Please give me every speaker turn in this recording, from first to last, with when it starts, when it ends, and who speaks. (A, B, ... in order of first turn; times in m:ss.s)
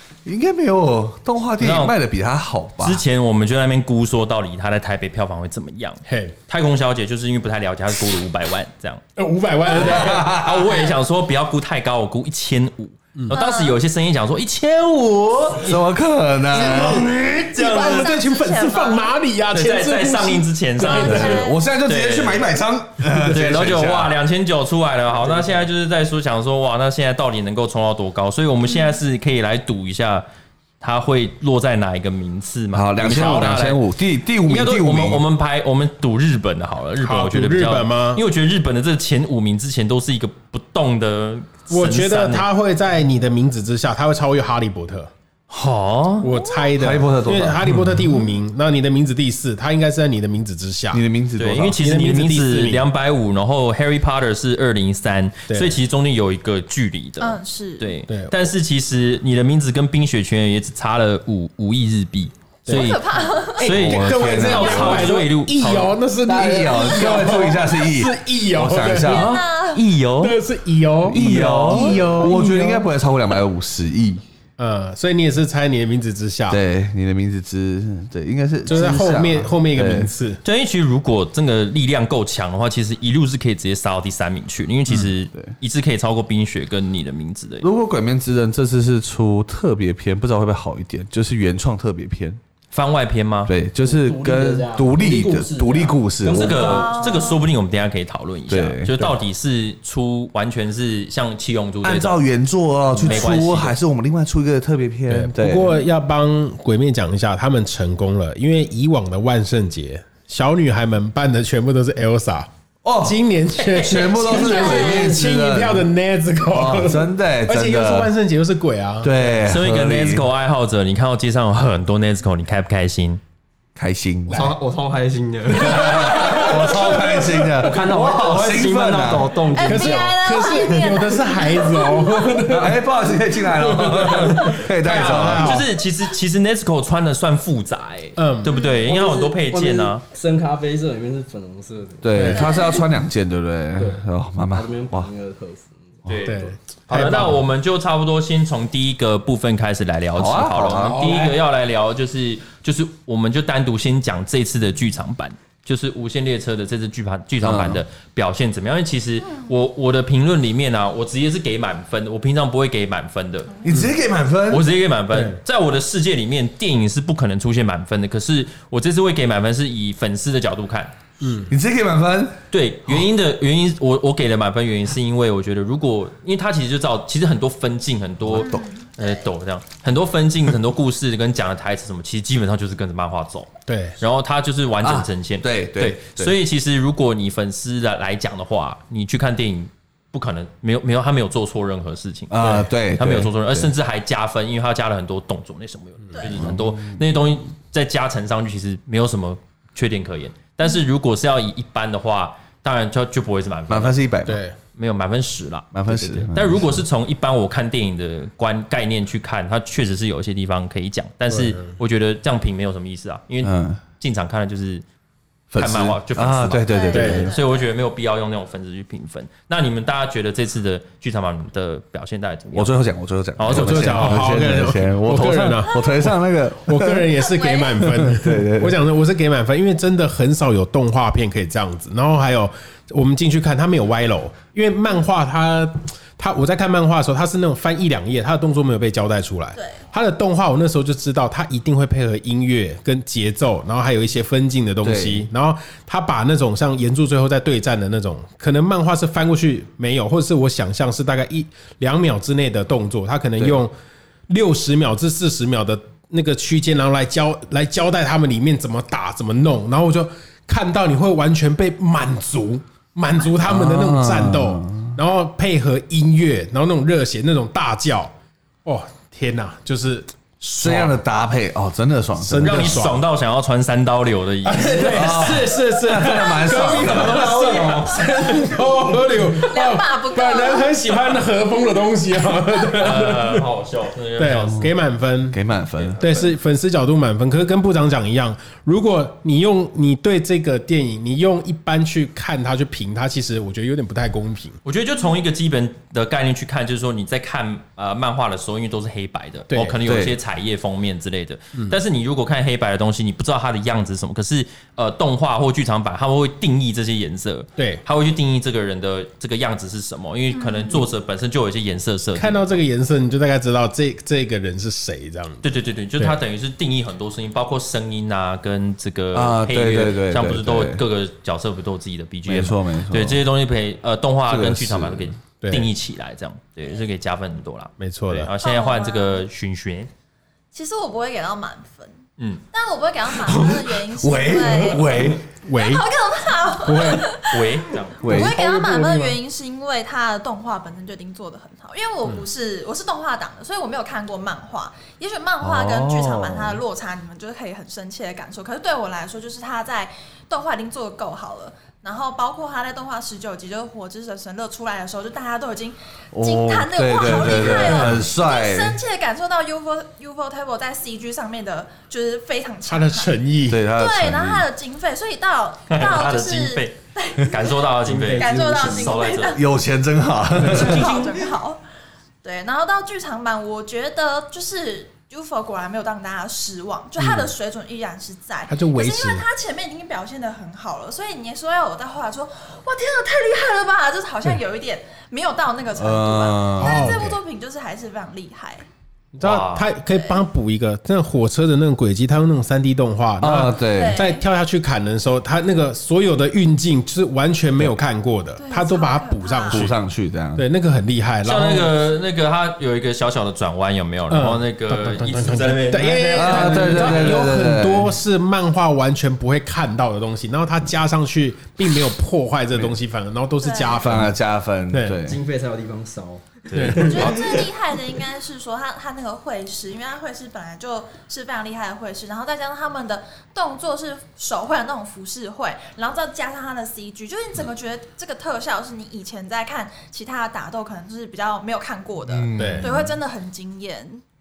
0:00.2-0:03.0 A
0:01.6-0:02.0 B
0:02.8-0:09.0 B
0:06.1-0:06.4 C
0:09.2-0:10.2 C
0:09.7-0:10.9 D
0:09.7-0:15.8 B
0:09.8-0:10.8 A
0:13.3-0:13.8 D
0:15.6-0:17.2 A
0:16.5-0:21.4 C
0:16.6-0:18.1 B
0:16.7-0:19.1 D
0:19.5-0:22.5 B
0:20.8-0:21.6 D
0:21.1-0:24.2 A
0:23.1-0:30.2 B
0:28.7-0:29.0 D
0:30.8-0:33.8 B
0:32.7-0:35.2 A
0:33.1-0:33.4 C
0:34.5-0:42.5 B
0:37.0-0:38.2 C
0:41.7-0:45.1 C
0:45.5-0:46.3 B
0:46.2-0:51.0 C
0:46.8-0:48.2 A
0:50.9-0:51.8 A
0:51.4-1:03.0 B
0:51.8-0:52.9 C
0:55.5-0:55.8 C
0:57.2-0:58.0 D
1:02.7-1:03.0 C
1:02.7-1:03.7 D
1:03.6-1:06.0 B
1:03.6-1:09.2 C
1:03.7-1:05.1 A
1:04.4-1:05.0 D
1:06.3-1:07.2 E
1:06.3-1:09.4 A
1:06.8-1:07.5 D
1:09.1-1:09.8 D
1:09.1-1:10.4 B
1:10.2-1:12.8 C
1:11.1-1:14.2 A
1:11.1-1:12.5 B
1:14.6-1:16.6 C
1:16.5-1:20.1 A
1:18.7-1:20.4 C
1:20.4-1:27.7 B
1:27.6-1:32.4 A
1:32.7-1:33.5 B
1:33.5-1:36.7 A
1:33.8-1:37.1 E
1:36.3-1:42.2 B
1:36.6-1:37.4 D
1:38.5-1:39.2 A
1:41.8-1:45.7 A
1:43.0-1:43.8 B
1:43.0-1:43.3 D
1:45.1-1:59.2 C
1:52.8-1:53.2 A
1:53.8-1:55.9 A
1:54.2-1:55.1 D
1:54.6-1:55.1 E
1:56.5-1:58.1 A
1:59.0-2:00.3 A
1:59.4-2:03.2 B
2:03.8-2:04.5 A
2:04.3-2:10.2 E
2:05.6-2:09.4 A
2:05.7-2:07.5 C
2:09.5-2:12.4 D
2:09.6-2:12.8 C
2:12.5-2:15.6 A
2:13.6-2:15.7 C
2:14.0-2:14.3 E
2:14.9-2:20.0 B
2:18.2-2:18.5 C
2:18.5-2:18.9 D
2:18.9-2:22.4 E
2:22.0-2:25.1 A
2:22.1-2:22.4 C
2:22.3-2:22.9 D
2:23.8-2:26.1 E
2:26.1-2:43.6 B
2:26.2-2:27.4 C
2:30.1-2:31.2 A
2:31.0-2:31.3 E
2:37.4-2:37.8 A
2:43.6-2:44.7 A
2:43.7-2:43.9 C
2:44.5-2:50.9 B
2:45.1-2:45.4 C
2:51.2-2:51.5 C
2:51.5-2:52.4 A
2:52.5-3:03.5 B
2:58.4-2:59.2 D
3:03.7-3:04.0 C
3:04.0-3:24.0 B
3:04.8-3:06.4 A
3:12.3-3:13.7 A
3:16.1-3:16.5 D
3:16.3-3:17.0 A
3:23.7-3:24.4 A
3:24.3-3:24.6 C
3:24.8-3:34.8 B
3:25.7-3:26.8 A
3:31.3-3:31.7 C
3:33.4-3:33.8 A
3:35.5-3:37.4 A
3:35.6-3:42.8 B
3:36.7-3:37.7 D
3:36.9-3:37.3 C
3:42.5-3:47.2 A
3:43.4-3:44.3 B
3:43.5-4:13.7 C
3:47.2-3:47.9 D
3:47.8-3:48.8 A
4:04.8-4:05.3 A
4:14.3-4:28.1 C
4:23.4-4:25.0 A
4:28.6-4:30.9 C
4:30.4-4:32.8 A
4:32.2-4:33.0 C
4:32.4-4:35.4 B
4:34.4-4:43.5 C
4:34.8-4:37.6 A
4:36.6-4:38.5 E
4:36.9-4:37.7 B
4:39.4-4:40.8 D
4:42.7-4:44.7 B
4:44.2-4:45.4 C
4:45.3-4:46.0 A
4:45.8-4:46.3 B
4:46.0-4:54.6 C
4:54.6-5:12.6 B
4:59.5-4:59.8 C
4:59.8-5:00.2 A
5:07.6-5:07.8 C
5:10.3-5:10.8 D
5:12.2-5:15.5 C
5:15.4-5:29.9 B
5:19.1-5:20.8 A
5:22.3-5:23.2 A
5:24.3-5:25.2 A
5:25.4-5:25.7 C
5:27.8-5:28.3 C
5:28.4-5:29.3 D
5:30.5-5:32.0 D
5:32.2-5:32.4 B
5:32.5-6:03.2 D
5:33.1-5:35.2 A
5:35.4-5:35.8 C
5:36.6-5:37.2 C
5:37.3-5:38.1 B
5:38.0-5:38.4 A
5:38.0-5:39.2 C
5:45.4-5:46.6 A
5:56.1-5:58.8 A
5:57.0-5:58.0 B
6:02.7-6:03.6 C
6:03.5-6:04.5 A
6:03.7-6:09.5 D
6:05.7-6:09.4 B
6:07.9-6:09.0 E
6:09.3-6:11.1 A
6:10.4-6:10.7 C
6:10.4-6:11.6 D
6:10.5-6:11.3 B
6:12.2-6:28.6 D
6:18.5-6:19.3 C
6:25.8-6:27.1 A
6:26.6-6:27.2 C
6:29.2-6:39.8 C
6:29.2-6:29.7 B
6:29.9-6:30.2 D
6:33.2-6:34.0 A
6:33.7-6:34.2 D
6:38.4-6:39.7 D
6:39.5-6:40.4 A
6:40.4-6:41.7 C
6:41.2-6:47.2 B
6:44.1-6:54.2 C
6:45.9-6:46.7 E
6:46.1-6:47.9 A
6:53.4-6:54.0 D
6:53.7-6:55.2 A
6:54.7-6:55.0 C
6:55.0-6:57.4 E
6:56.5-6:57.4 B
6:56.5-6:57.1 C
6:56.8-7:14.0 D
7:12.1-7:13.0 A
7:12.4-7:12.7 C